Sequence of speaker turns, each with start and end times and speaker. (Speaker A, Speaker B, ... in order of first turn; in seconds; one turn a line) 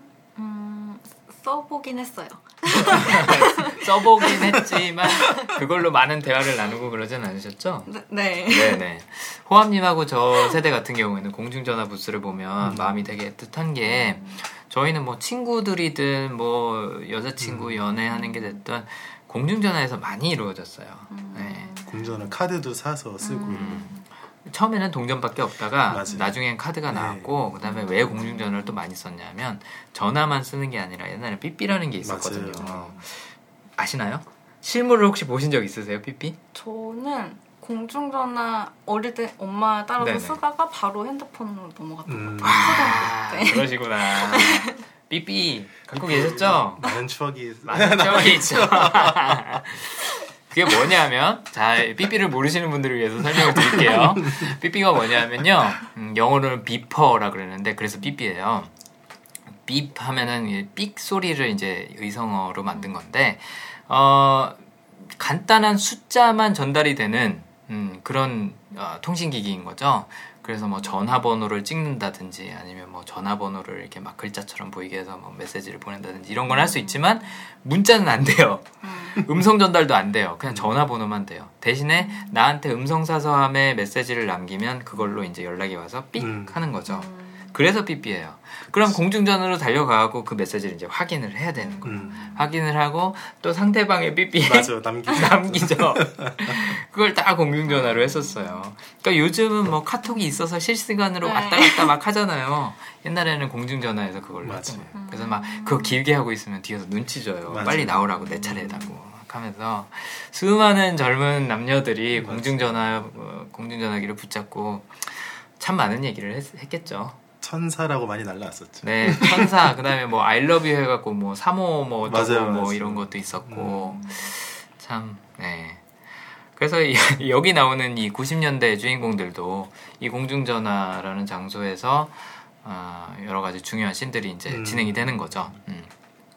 Speaker A: 0.3-5.6
Speaker B: 2.7-7.9
Speaker A: 7.9-8.8
Speaker B: 8.4-21.7
Speaker C: 12.6-13.0
Speaker A: 13.8-14.4
Speaker C: 17.4-17.8
Speaker A: 18.1-18.6
Speaker A: 21.1-22.4
Speaker C: 21.9-23.9
Speaker A: 23.2-24.0
Speaker B: 23.4-36.4
Speaker C: 25.9-27.5
Speaker A: 26.1-26.3
Speaker A: 27.6-28.8
Speaker C: 32.0-32.9
Speaker A: 32.6-32.9
Speaker A: 36.5-44.8
Speaker B: 40.0-40.4
Speaker C: 42.1-43.1
Speaker B: 42.4-46.9
Speaker C: 45.9-49.6
Speaker B: 47.6-58.7
Speaker C: 53.7-54.5
Speaker B: 59.6-64.6
Speaker B: 65.1-117.2
Speaker A: 70.5-71.0
Speaker A: 76.5-77.4
Speaker A: 78.8-79.2
Speaker C: 80.5-80.7
Speaker A: 82.0-82.4
Speaker C: 86.2-86.7
Speaker A: 86.8-87.5
Speaker C: 88.6-89.0
Speaker A: 91.6-92.5
Speaker C: 91.8-92.4
Speaker C: 94.4-96.5
Speaker A: 97.7-98.6
Speaker A: 100.0-100.4
Speaker A: 101.2-101.9
Speaker C: 104.4-104.9
Speaker A: 104.9-106.0
Speaker C: 107.5-108.8
Speaker A: 108.0-108.9
Speaker C: 112.1-113.1
Speaker C: 117.4-119.5
Speaker B: 118.8-125.9
Speaker C: 122.0-124.0
Speaker B: 126.5-135.9
Speaker C: 134.5-135.6